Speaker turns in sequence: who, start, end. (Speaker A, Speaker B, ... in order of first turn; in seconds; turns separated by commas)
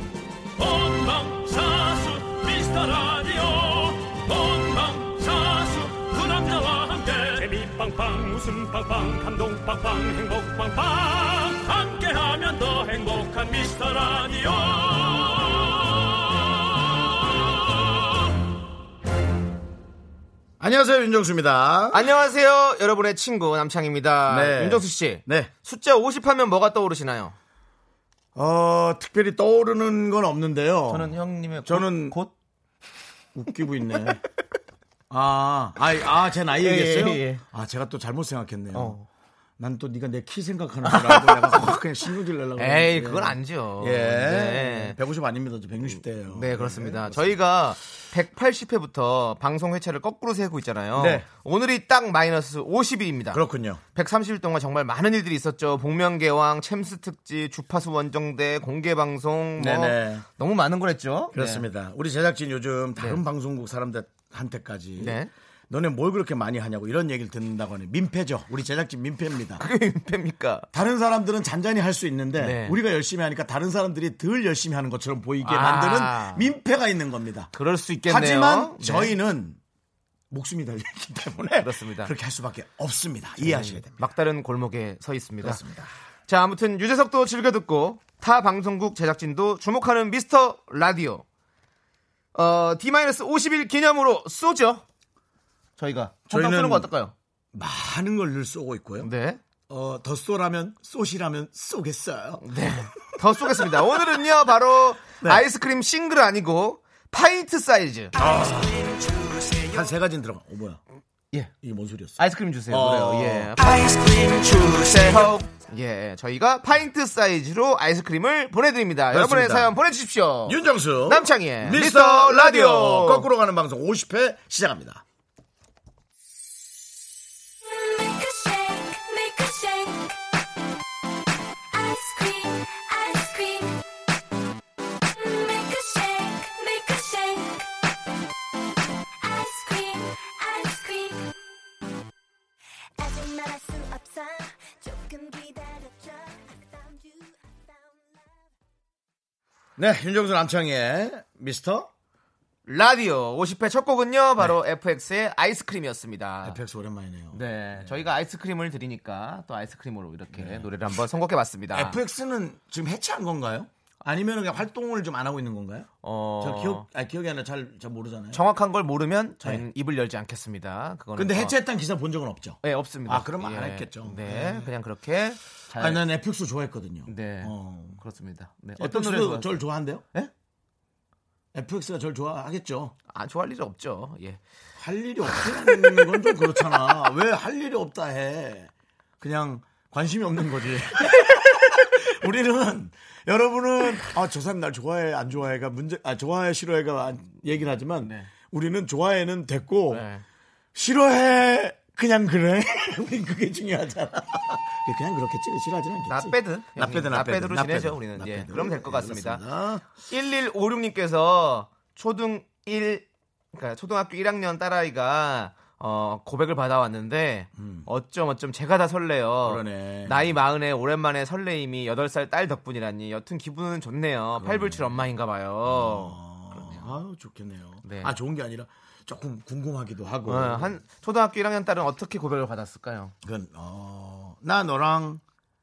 Speaker A: 0.6-18.3, Speaker B: 20.6-22.1, Speaker C: 21.9-27.3, Speaker B: 24.3-25.5, Speaker B: 28.3-32.2, Speaker C: 30.9-32.3, Speaker B: 33.3-34.2, Speaker B: 35.1-39.0, Speaker C: 36.5-37.4, Speaker C: 38.7-39.0, Speaker B: 39.6-47.4, Speaker C: 40.8-41.8, Speaker C: 42.6-45.0, Speaker C: 46.3-53.4, Speaker B: 50.9-51.2, Speaker B: 53.3-53.8, Speaker C: 53.9-61.7, Speaker B: 59.6-60.2, Speaker B: 61.3-69.6, Speaker C: 65.0-65.3, Speaker C: 69.6-70.7, Speaker B: 70.7-77.5, Speaker C: 72.4-72.8, Speaker C: 75.4-76.5, Speaker C: 77.5-79.1, Speaker B: 78.0-79.6, Speaker B: 80.3-84.0, Speaker C: 81.6-82.1, Speaker C: 83.4-85.6, Speaker B: 85.4-85.9, Speaker C: 86.3-91.2, Speaker C: 92.3-94.8, Speaker C: 95.8-97.1, Speaker B: 96.3-96.9, Speaker B: 97.5-99.1, Speaker C: 99.0-99.4, Speaker B: 99.7-104.2, Speaker C: 102.4-108.1, Speaker B: 108.2-108.9, Speaker B: 109.7-110.8, Speaker B: 111.6-113.5, Speaker C: 112.2-123.3, Speaker D: 114.0-114.3, Speaker B: 119.1-119.7, Speaker B: 120.4-125.0, Speaker D: 127.6-130.2, Speaker D: 131.7-133.8, Speaker D: 135.1-137.7, Speaker D: 139.2-141.3, Speaker D: 143.0-148.4, Speaker B: 149.8-151.9, Speaker C: 152.7-156.6, Speaker B: 156.4-158.0, Speaker C: 157.3-162.0, Speaker B: 160.3-160.7, Speaker B: 161.7-168.4, Speaker C: 166.0-166.8, Speaker C: 168.3-171.6, Speaker B: 171.2-174.7, Speaker C: 172.6-176.0, Speaker B: 175.8-178.0, Speaker C: 177.1-179.6, Speaker B: 178.8-180.1, Speaker B: 181.5-182.9, Speaker C: 183.1-184.4, Speaker B: 184.8-200.1, Speaker C: 185.3-186.1, Speaker C: 198.0-198.3, Speaker C: 199.9-200.2, Speaker B: 200.7-209.8, Speaker C: 206.1-209.4, Speaker C: 210.0-226.9, Speaker B: 217.6-217.9, Speaker B: 219.4-220.3, Speaker B: 224.4-225.0, Speaker B: 225.6-230.8, Speaker C: 227.8-228.2, Speaker C: 230.2-233.1, Speaker B: 233.2-235.2